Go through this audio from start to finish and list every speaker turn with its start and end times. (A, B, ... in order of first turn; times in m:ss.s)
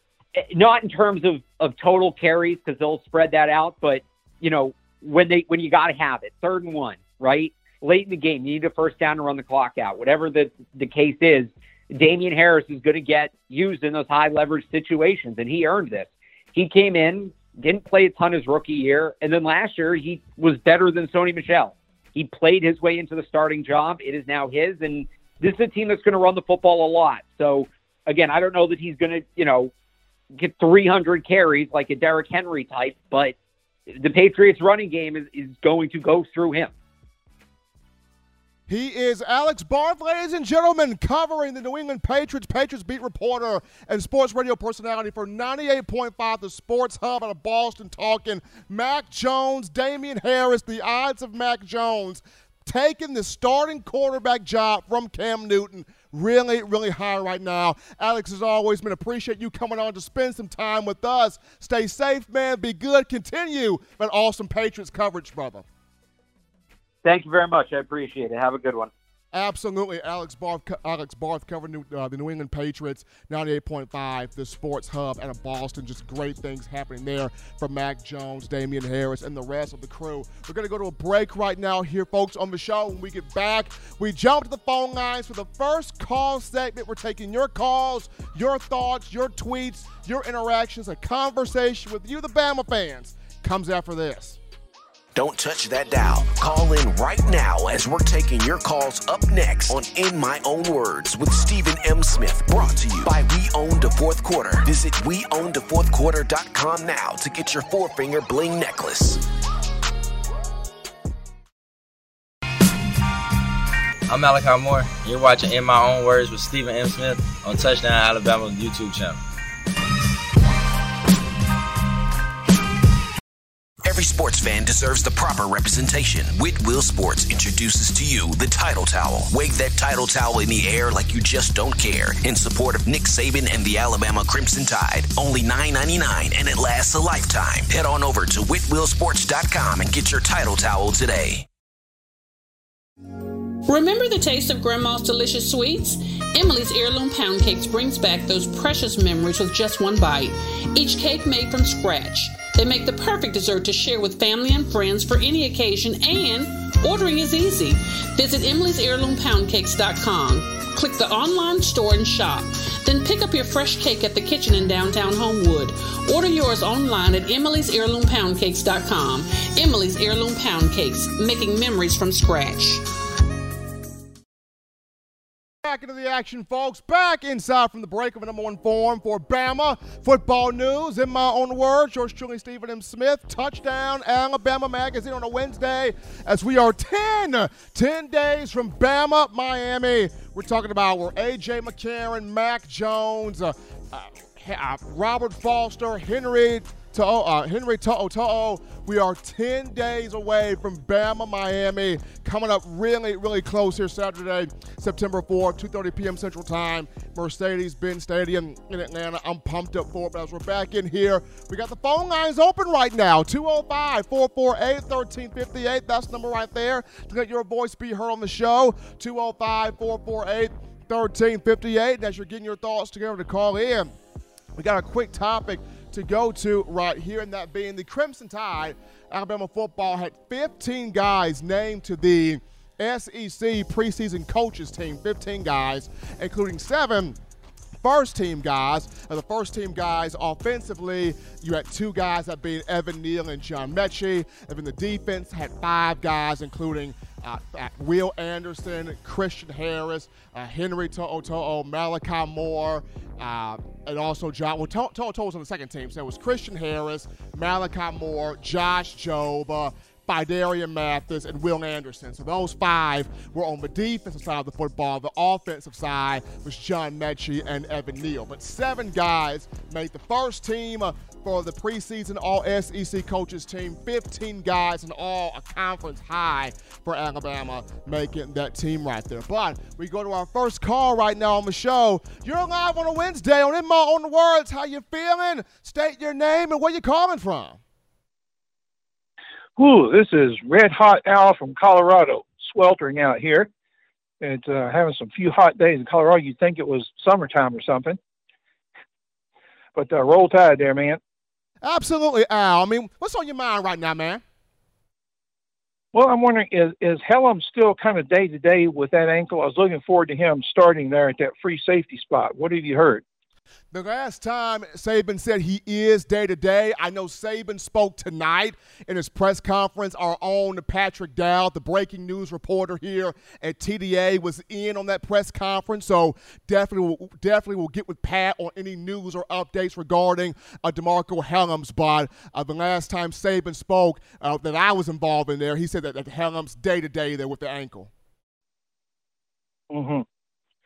0:00.4-0:29.7 A
0:30.3-0:33.4 A
0:33.9-0:36.7 A
0:38.7-1:05.6 B
1:07.0-1:08.9 A
1:09.3-1:34.4 B
1:35.2-1:49.2 C
1:54.1-1:59.2 D
2:03.8-2:21.5 C
2:23.7-2:52.8 E
2:55.6-3:43.9 B
3:44.6-3:57.2 B
3:57.8-4:47.6 B
4:49.6-4:53.5 F
4:54.2-4:58.0 F
4:59.8-5:01.0 F
5:01.6-5:04.2 B
5:05.9-5:13.0 F
5:13.7-5:37.9 B
5:39.7-5:40.0 F